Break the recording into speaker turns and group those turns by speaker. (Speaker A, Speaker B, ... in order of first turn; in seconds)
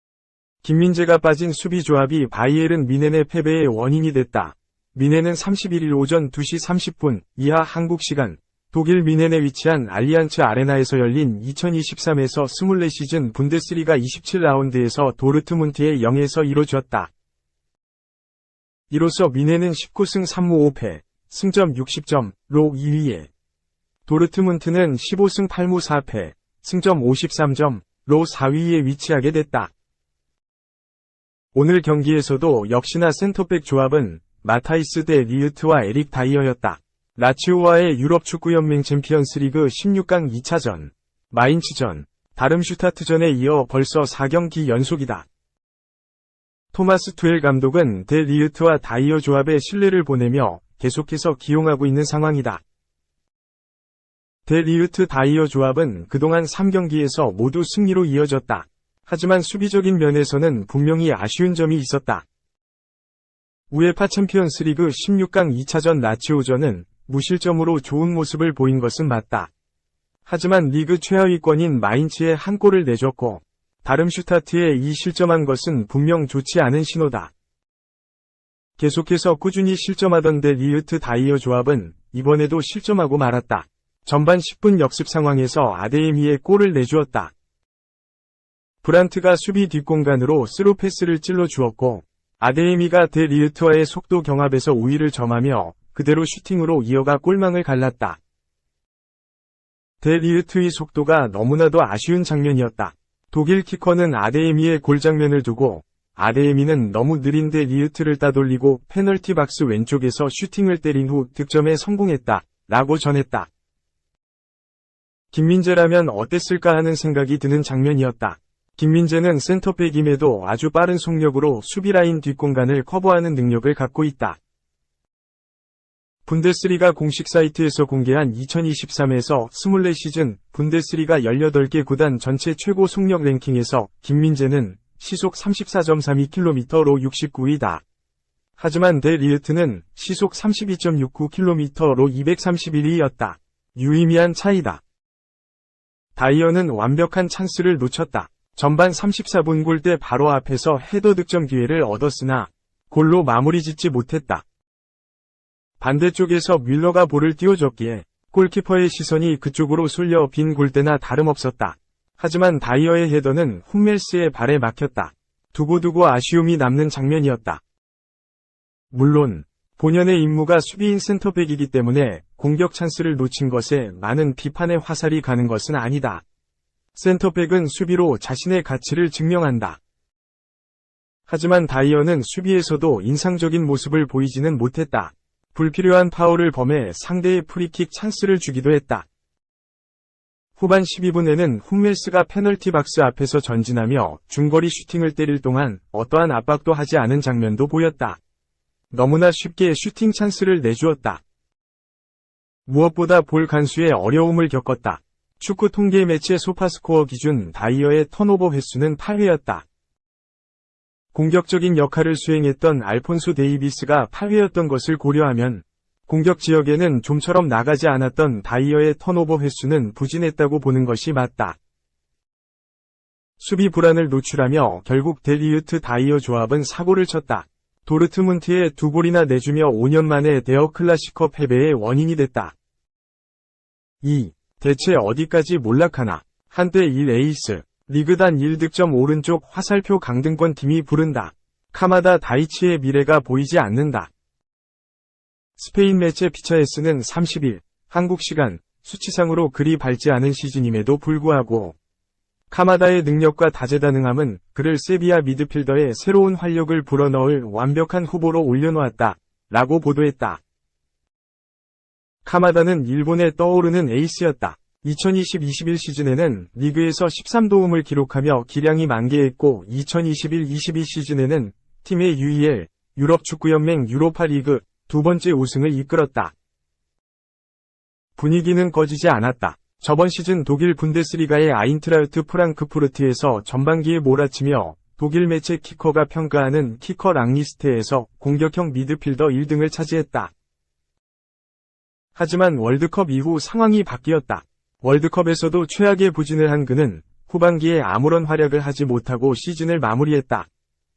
Speaker A: 0.6-17.1, 18.9-23.3, 24.1-29.7, 31.5-45.3, 46.7-52.6, 54.5-62.2, 63.7-69.5, 70.3-77.3, 78.8-87.3, 88.8-98.2, 100.0-113.5, 115.3-124.4, 126.3-137.8, 138.6-144.8, 146.2-154.4, 155.8-167.6, 168.9-176.2, 176.9-179.8, 181.3-189.1, 190.6-198.2, 198.9-201.2, 202.7-209.7, 211.1-221.6, 223.4-232.5, 234.0-244.1, 245.6-251.8, 252.5-260.4, 262.2-276.3, 278.2-290.3, 292.2-300.5